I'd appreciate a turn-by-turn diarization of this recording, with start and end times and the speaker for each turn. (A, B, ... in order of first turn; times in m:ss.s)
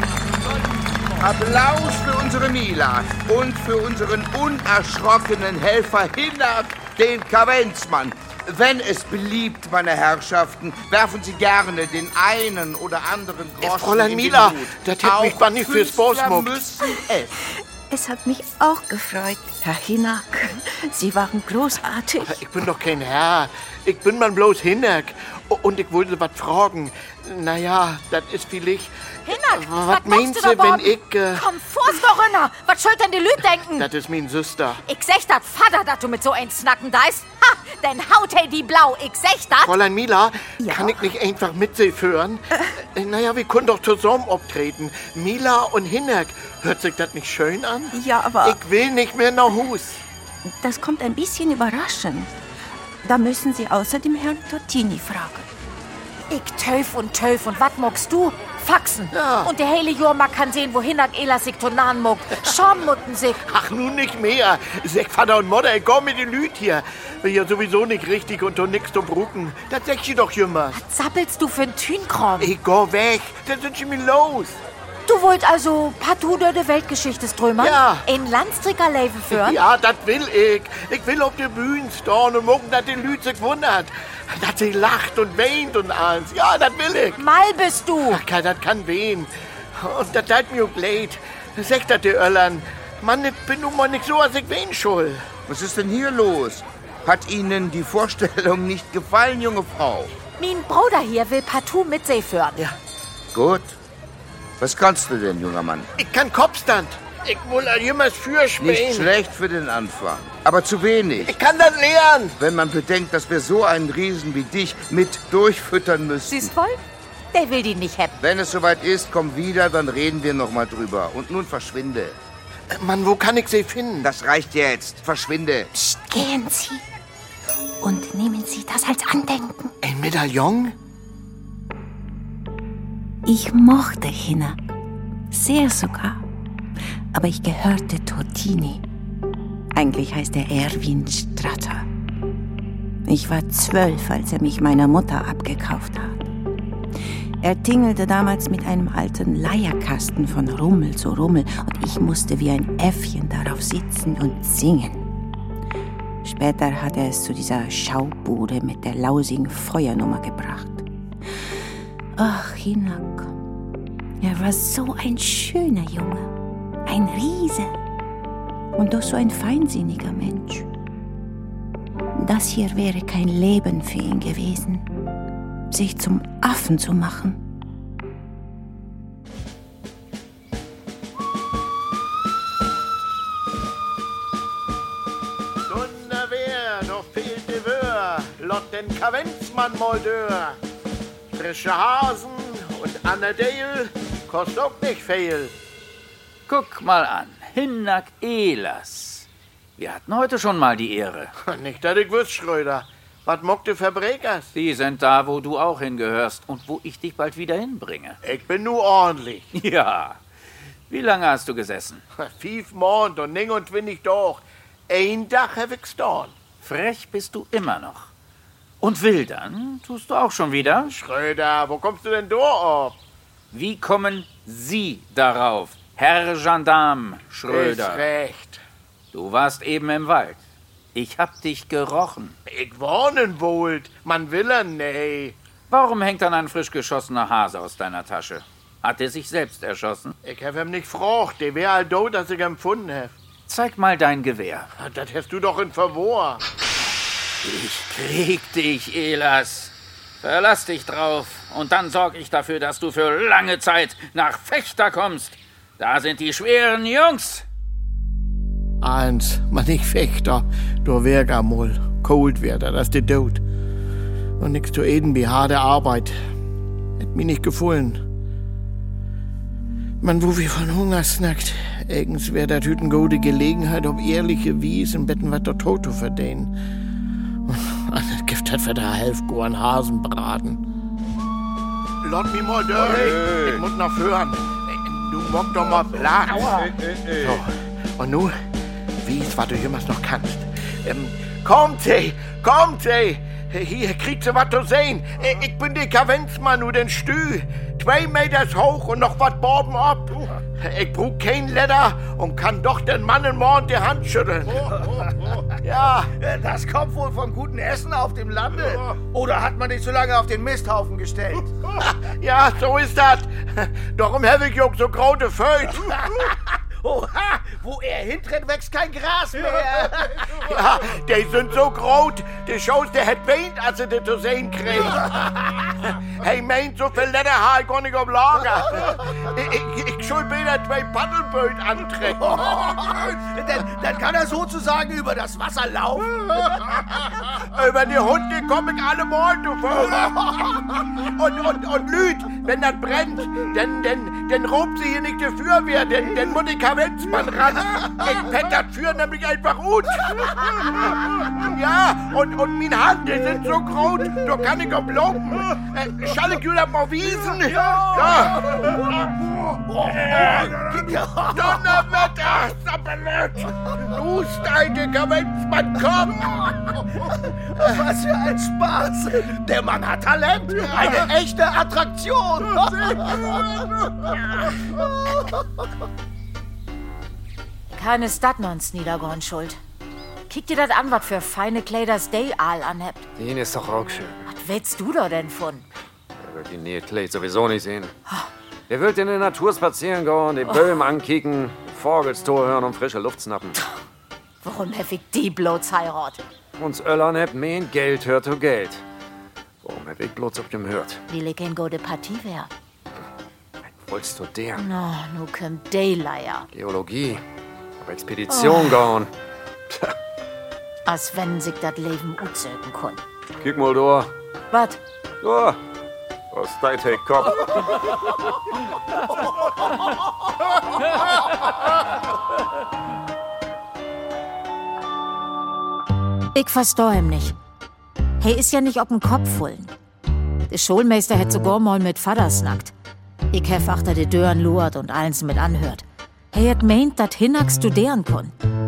0:01.2-0:17.3 A
0:13.6-0:16.6 B
0:17.9-0:22.4 C
0:22.3-0:31.4 B
0:29.2-0:33.9 D
0:33.7-0:34.8 B
0:34.8-0:39.7 D
0:39.6-0:50.0 B
0:40.6-0:41.0 C
0:47.9-0:48.6 C
0:50.4-0:52.3 C
0:53.0-0:55.5 C
0:56.3-1:03.4 D
0:59.1-0:59.5 B
1:03.5-1:10.8 B
1:10.7-1:12.5 D
1:12.4-1:14.6 B
1:15.0-1:19.6 D
1:17.6-1:18.0 B
1:19.3-1:27.2 B
1:27.2-1:28.2 D
1:28.0-1:35.3 B
1:35.5-1:40.1 A
1:40.4-1:42.6 D
1:43.3-1:43.8 A
1:44.6-1:45.9 A
1:46.0-1:49.1 B
1:48.6-1:51.3 A
1:51.2-1:52.4 B
1:52.4-1:56.5 A
1:56.3-1:58.2 D
1:58.2-2:02.2 A
2:02.7-2:04.1 B
2:04.0-2:05.7 A
2:05.7-2:06.8 C
2:07.8-2:09.7 C
2:09.8-2:10.7 B
2:13.2-2:14.6 C
2:15.3-2:16.2 C
2:17.1-2:18.8 C
2:19.7-2:21.9 C
2:23.0-2:26.3 C
2:27.4-2:35.1 C
2:36.2-2:40.9 C
2:42.2-2:43.3 C
2:44.2-2:46.3 C
2:46.8-2:47.8 C
2:48.8-2:50.7 C
2:52.2-2:54.8 C
2:55.7-2:57.4 C
3:05.7-3:10.6 B
3:11.3-3:15.5 B
3:16.5-3:19.2 E
3:19.8-3:21.3 E
3:21.4-3:24.5 B
3:24.5-3:28.2 E
3:28.2-3:29.5 B
3:29.5-3:30.2 E
3:30.9-3:32.0 E
3:32.2-3:36.4 B
3:36.6-3:38.1 E
3:38.8-3:40.9 E
3:40.9-3:43.0 B
3:43.5-3:48.0 E
3:47.5-3:48.6 B
3:49.1-3:50.4 E
3:50.9-3:52.4 E
3:52.4-3:55.4 B
3:55.7-4:00.1 E
4:00.2-4:03.1 B
4:03.5-4:04.7 E
4:04.8-4:06.4 B
4:07.4-4:17.4 E
4:18.8-4:23.4 B
4:24.4-4:26.2 B
4:27.0-4:28.0 B
4:30.0-4:36.5 B
4:37.4-4:40.6 B
4:42.0-4:48.4 B
4:49.0-5:04.7 B
5:05.6-5:06.1 B
5:06.2-5:11.5 F
5:11.8-5:15.9 B
5:15.9-5:20.4 F
5:20.4-5:25.1 B
5:25.8-5:32.5 B
5:32.2-5:36.7 F
5:37.4-5:58.5 B
5:57.7-5:59.1 F
5:59.6-6:02.0 F
6:01.3-6:06.8 B
6:07.5-6:14.0 F
6:14.7-6:15.4 F
6:17.7-6:19.6 D
6:20.3-6:23.1 D
6:23.2-6:24.2 G
6:24.2-6:25.6 D
6:26.2-6:27.9 G
6:28.7-6:33.6 G
6:34.4-6:36.2 D
6:36.6-6:38.8 G
6:39.6-6:41.0 G
6:41.1-6:42.5 D
6:43.6-6:44.6 G
6:44.6-6:46.4 D
6:46.5-6:47.2 G
6:47.8-6:49.1 G
6:48.3-6:48.8 D
6:49.7-6:49.9 G
6:50.8-6:53.0 D
6:53.4-6:54.1 G
6:54.5-6:54.8 D
6:55.2-6:55.6 G
6:56.3-6:58.0 G
7:06.3-7:07.4 D
7:08.2-7:09.7 D
7:10.5-7:12.7 D
7:13.3-7:18.3 D